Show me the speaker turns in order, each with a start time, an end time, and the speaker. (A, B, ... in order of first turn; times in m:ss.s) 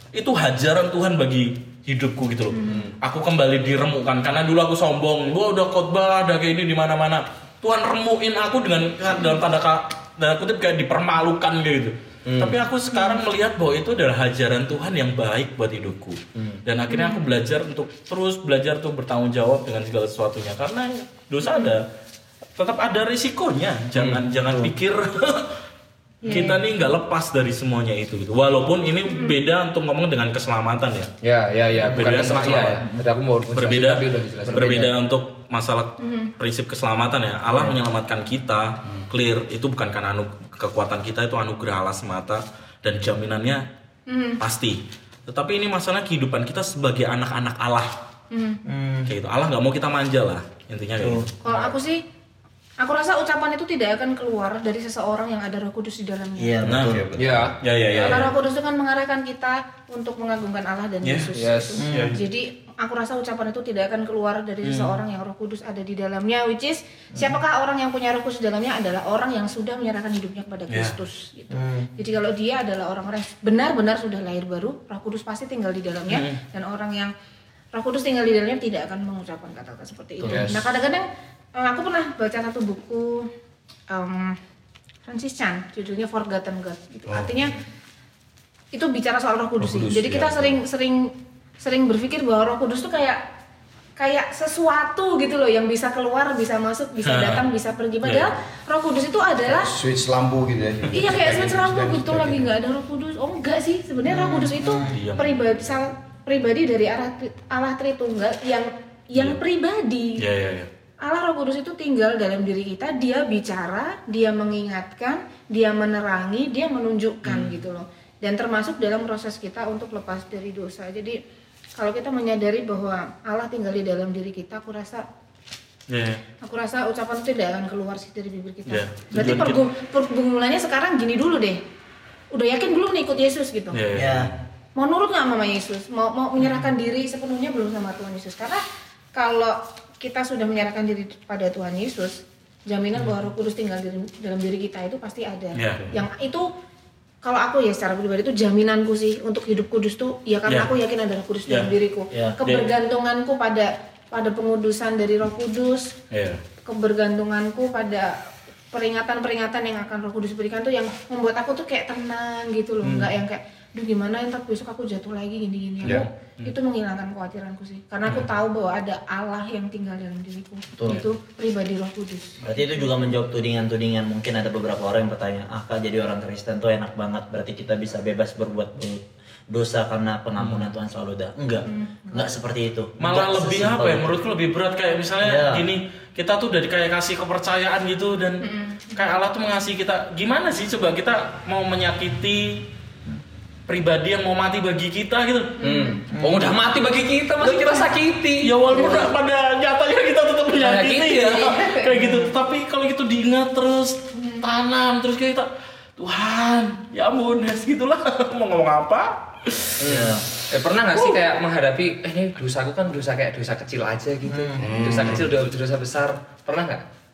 0:00.1-0:21.9 A
0:02.5-0:02.9 B
0:12.2-0:12.6 C
0:12.9-0:13.2 B
0:16.4-0:16.6 C
0:16.9-0:17.3 B
0:21.4-0:21.7 B
0:22.6-0:25.5 A
0:23.9-0:24.2 C
0:26.2-0:26.6 B
0:26.3-0:31.1 A
0:26.3-0:26.6 C
0:29.1-0:29.4 B
0:31.2-0:34.9 C
0:31.8-0:32.8 A
0:33.5-0:43.6 A
0:36.0-0:36.3 B
0:44.1-0:44.4 B
0:44.4-0:47.9 A
0:48.3-0:48.6 B
0:48.6-0:49.1 D
0:49.1-0:51.3 A
0:51.0-0:51.3 D
0:51.4-0:52.0 B
0:51.5-0:51.7 C
0:52.8-0:56.5 B
0:56.4-0:57.2 D
0:56.6-0:57.0 A
0:56.7-0:57.4 E
0:57.2-0:58.3 C
0:57.6-0:58.3 A
0:58.0-1:17.1 B
1:01.0-1:02.2 A
1:01.3-1:01.8 C
1:01.8-1:02.2 D
1:04.6-1:05.0 A
1:10.7-1:11.0 A
1:11.5-1:11.9 D
1:16.1-1:16.4 A
1:17.7-1:23.3 B
1:20.2-1:20.6 C
1:20.2-1:20.5 A
1:23.9-1:24.4 B
1:25.0-1:27.6 B
1:28.7-1:33.2 B
1:29.6-1:30.6 E
1:34.0-1:39.7 B
1:37.0-1:37.4 A
1:38.0-1:38.3 A
1:39.5-1:42.5 E
1:40.9-1:50.2 B
1:44.1-1:45.0 D
1:44.8-1:45.6 A
1:49.1-1:49.4 A
1:50.2-1:50.7 A
1:51.0-2:01.2 B
1:57.2-1:57.5 A
2:01.8-2:05.0 B
2:05.9-2:06.2 A
2:06.4-2:11.6 B
2:08.7-2:09.6 A
2:12.3-2:13.8 B
2:13.7-2:14.3 A
2:13.9-2:14.3 D
2:14.7-2:18.6 B
2:19.1-2:26.5 B
2:25.5-2:26.0 A
2:27.2-2:36.0 B
2:30.5-2:30.7 A
2:32.1-2:32.4 D
2:32.4-2:32.7 A
2:36.1-2:36.4 A
2:36.6-2:38.2 B
2:38.7-2:52.9 B
2:42.8-2:43.1 D
2:45.8-2:46.5 A
2:50.8-2:51.0 D
2:52.4-3:04.2 D
3:00.4-3:00.7 A
3:01.7-3:02.3 B
3:03.0-3:12.7 A
3:05.2-3:05.6 D
3:08.4-3:09.1 B
3:13.7-3:15.6 A
3:15.6-3:16.0 B
3:15.6-3:18.5 C
3:16.1-3:16.5 D
3:18.4-3:29.8 A
3:18.8-3:19.0 B
3:20.6-3:21.8 C
3:22.0-3:22.3 B
3:29.8-3:36.8 C
3:29.8-3:30.2 D
3:34.2-3:34.9 D
3:34.6-3:35.2 E